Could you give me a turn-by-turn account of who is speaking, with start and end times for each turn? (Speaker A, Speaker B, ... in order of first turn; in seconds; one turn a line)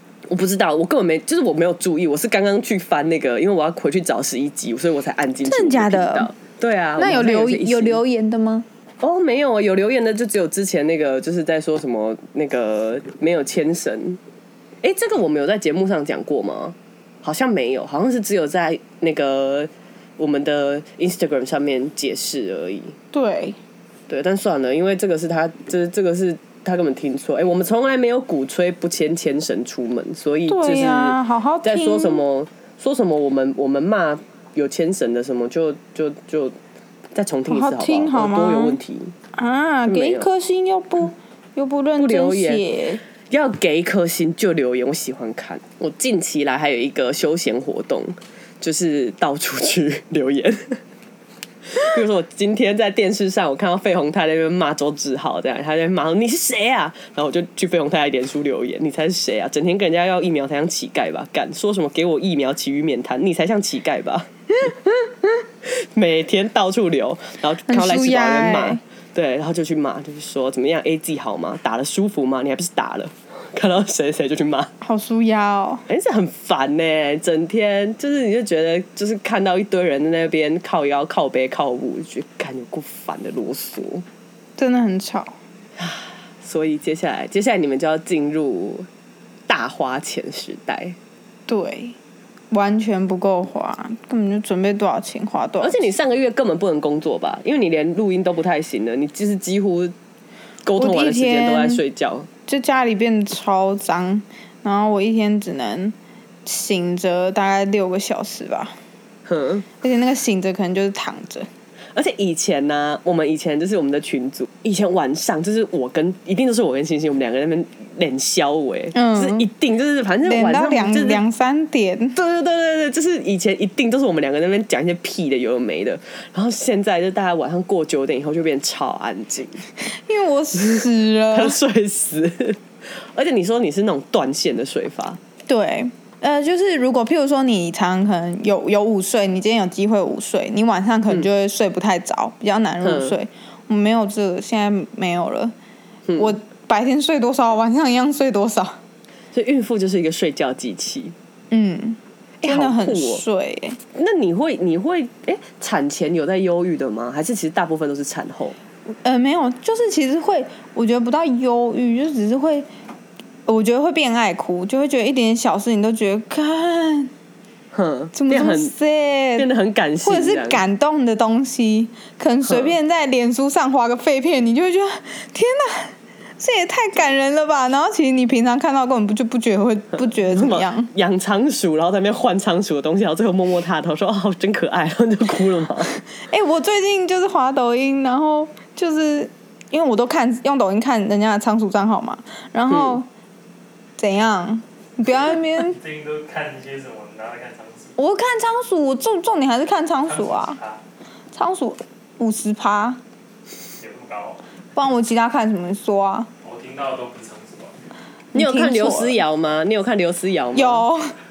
Speaker A: 0.3-8.0
Speaker B: 5.5-6.3
Speaker B: 7.0-8.7
Speaker A: 9.0-14.2
Speaker A: 14.8-22.9
Speaker B: 23.1-23.6
Speaker A: 24.1-36.6
Speaker B: 30.5-32.2
Speaker A: 37.1-39.1
Speaker B: 37.5-38.8
Speaker B: 39.4-43.0
Speaker A: 39.9-40.3
Speaker A: 42.0-42.6
Speaker A: 43.3-50.8
Speaker A: 51.7-64.3
Speaker B: 64.6-65.1
Speaker A: 65.6-74.7
Speaker B: 67.7-68.8
Speaker B: 74.8-75.8
Speaker A: 75.9-84.0
Speaker B: 84.6-85.4
Speaker A: 85.8-88.9
Speaker A: 89.5-91.0
Speaker B: 91.5-92.0
Speaker B: 92.5-95.8
Speaker A: 95.6-99.9
Speaker A: 100.6-102.3
Speaker B: 100.8-101.8
Speaker B: 102.5-108.8
Speaker A: 109.3-109.7
Speaker B: 109.8-111.5
Speaker A: 111.9-121.2
Speaker B: 118.9-119.5
Speaker B: 120.2-122.2
Speaker A: 122.2-129.6
Speaker B: 130.1-131.6
Speaker A: 130.6-135.2
Speaker B: 135.5-145.5
Speaker A: 142.8-143.2
Speaker A: 146.1-146.3
Speaker B: 146.2-148.8
Speaker A: 149.3-151.2
Speaker B: 151.5-153.8
Speaker A: 152.4-153.2
Speaker A: 153.9-158.6
Speaker B: 159.0-162.7
Speaker B: 163.5-167.1
Speaker A: 167.7-168.7
Speaker B: 168.2-169.5
Speaker A: 169.4-170.6
Speaker B: 170.0-180.9
Speaker A: 172.5-172.7
Speaker A: 180.2-185.9
Speaker B: 186.2-193.1
Speaker A: 192.7-193.0
Speaker B: 194.0-195.8
Speaker C: 195.6-198.0
Speaker B: 198.0-200.6
Speaker C: 200.1-200.8
Speaker B: 201.3-203.0
Speaker C: 203.8-204.4
Speaker B: 204.8-206.3
Speaker C: 206.4-207.7
Speaker B: 208.3-209.2
Speaker A: 208.3-210.9
Speaker B: 210.5-211.1